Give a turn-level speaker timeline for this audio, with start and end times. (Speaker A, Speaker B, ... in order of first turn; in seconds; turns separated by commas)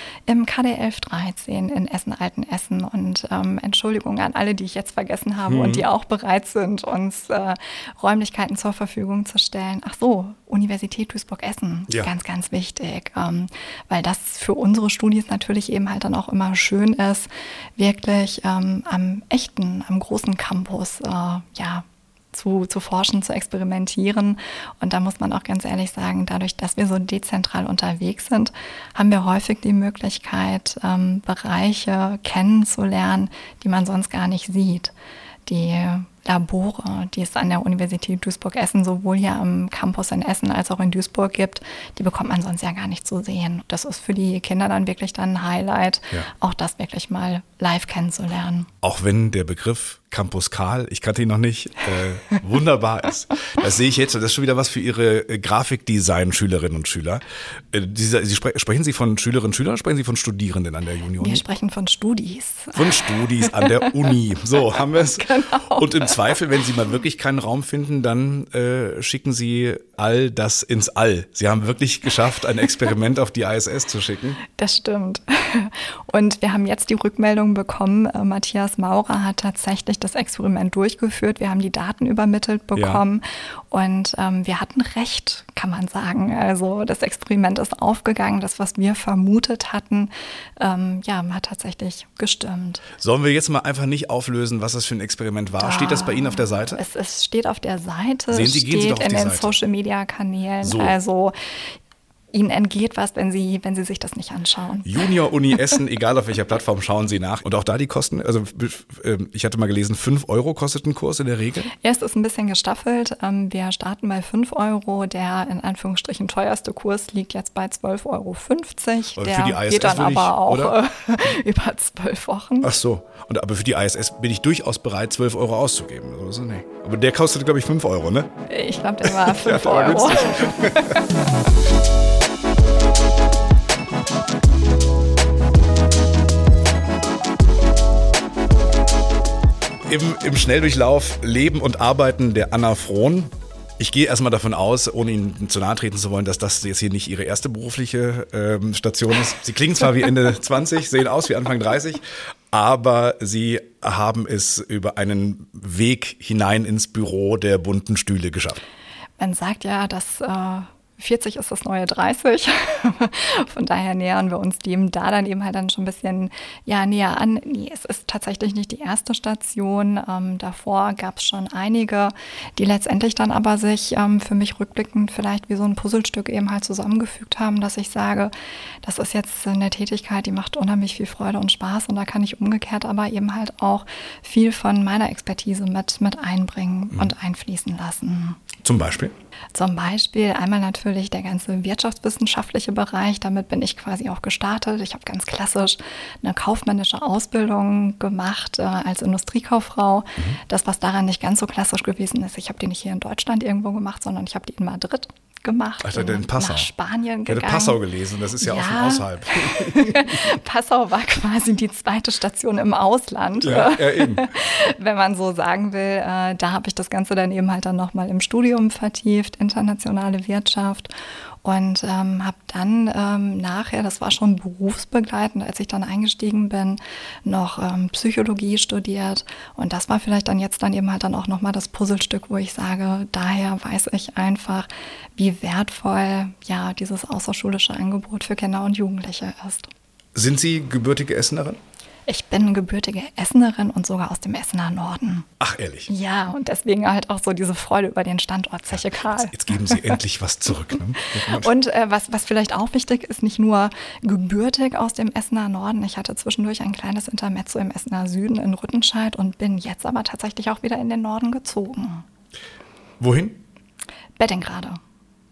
Speaker A: 0.3-34.9, Speaker B: 5.5-5.9, Speaker A: 35.5-48.7, Speaker B: 48.8-61.4, Speaker A: 61.2-63.9, Speaker B: 62.8-74.4, Speaker A: 64.9-66.4, Speaker A: 74.6-92.8, Speaker B: 82.8-83.0, Speaker B: 93.0-96.8, Speaker A: 95.6-101.8, Speaker B: 98.3-99.6, Speaker B: 100.6-101.0, Speaker A: 102.3-105.0, Speaker B: 104.8-111.7, Speaker A: 111.8-122.7, Speaker B: 119.2-120.8, Speaker B: 122.6-128.3, Speaker A: 128.5-131.0, Speaker B: 129.1-131.0, Speaker B: 139.8-158.6, Speaker A: 159.2-188.4, Speaker B: 188.6-189.1, Speaker A: 189.5-207.8, Speaker B: 205.8-206.7, Speaker B: 207.3-210.2, Speaker A: 208.4-220.9, Speaker B: 213.4-214.3, Speaker A: 221.4-239.7, Speaker B: 240.2-241.6, Speaker A: 242.1-245.3, Speaker B: 245.4-245.9, Speaker A: 245.9-250.0, Speaker B: 248.7-251.5, Speaker A: 251.2-262.1, Speaker B: 263.0-263.4, Speaker A: 264.2-264.8